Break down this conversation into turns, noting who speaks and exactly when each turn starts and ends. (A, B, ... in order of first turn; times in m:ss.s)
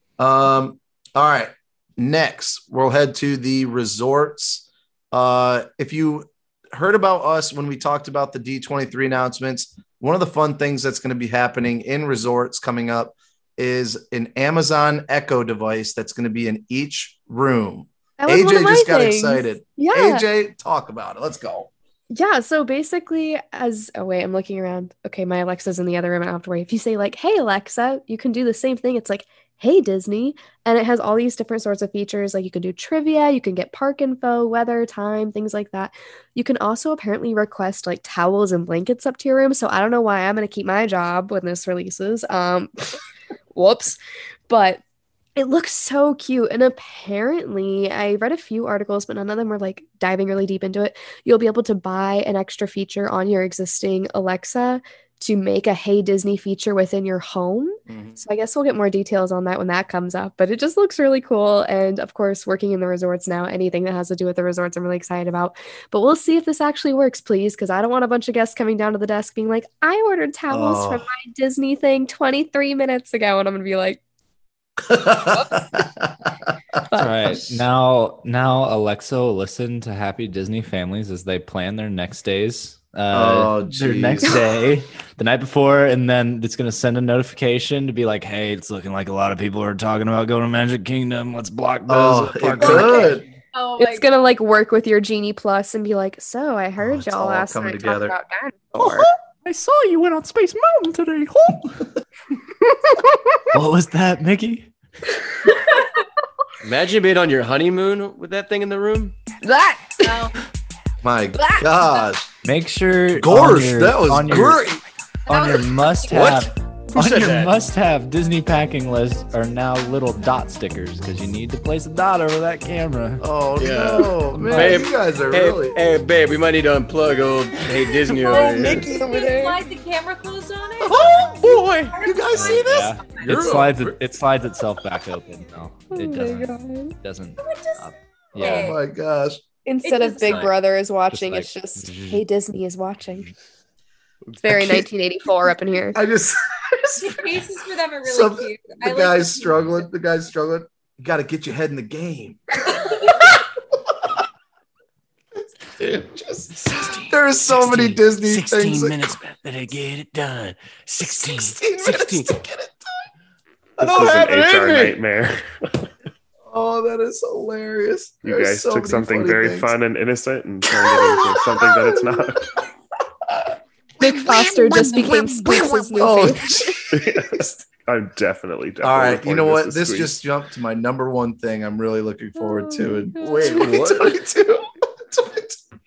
0:00.2-0:21.7 A
0:18.2-0:20.2 B
0:22.1-0:43.0 B
0:43.5-0:44.8 B
0:45.4-1:14.0 B
0:57.9-0:58.2 A
1:10.5-1:11.1 A
1:14.8-1:16.1 A
1:16.9-1:17.6 B
1:17.0-1:33.2 C
1:23.1-1:24.4 A
1:31.9-1:33.2 A
1:32.6-1:33.1 B
1:33.5-1:34.1 D
1:33.8-1:39.1 B
1:36.8-1:38.2 A
1:38.8-1:41.9 C
1:43.5-1:44.7 C
1:46.6-1:49.2 E
1:49.4-1:50.1 B
1:50.0-1:50.3 D
1:51.0-1:52.3 A
1:52.4-1:54.7 C
1:53.1-1:54.8 A
1:55.3-2:03.2 C
1:55.3-1:56.4 D
1:56.1-1:57.6 E
2:03.2-2:05.8 A
2:03.6-2:08.9 E
2:04.4-2:04.8 C
2:08.2-2:13.6 D
2:08.3-2:08.8 A
2:08.6-2:09.6 B
2:10.8-2:14.0 A
2:11.4-2:11.9 E
2:12.3-2:18.8 C
2:15.9-2:17.0 B
2:17.4-2:18.8 D
2:18.4-2:19.4 A
2:19.6-2:23.3 B
2:19.8-2:20.5 D
2:21.1-2:22.2 C
2:24.4-2:26.0 B
2:24.5-2:24.8 A
2:25.9-2:27.2 A
2:27.0-2:29.8 D
2:28.0-2:33.3 A
2:35.8-2:39.1 A
2:36.7-2:42.3 E
2:41.0-2:43.0 A
2:43.8-2:45.0 A
2:43.8-2:45.4 F
2:46.5-2:49.7 A
2:48.2-2:52.5 F
2:50.8-2:52.2 A
2:54.0-2:56.8 B
2:54.1-2:55.0 A
2:55.9-2:57.5 A
2:56.9-3:00.2 F
2:58.8-3:05.6 A
3:02.4-3:03.7 B
3:03.2-3:04.1 E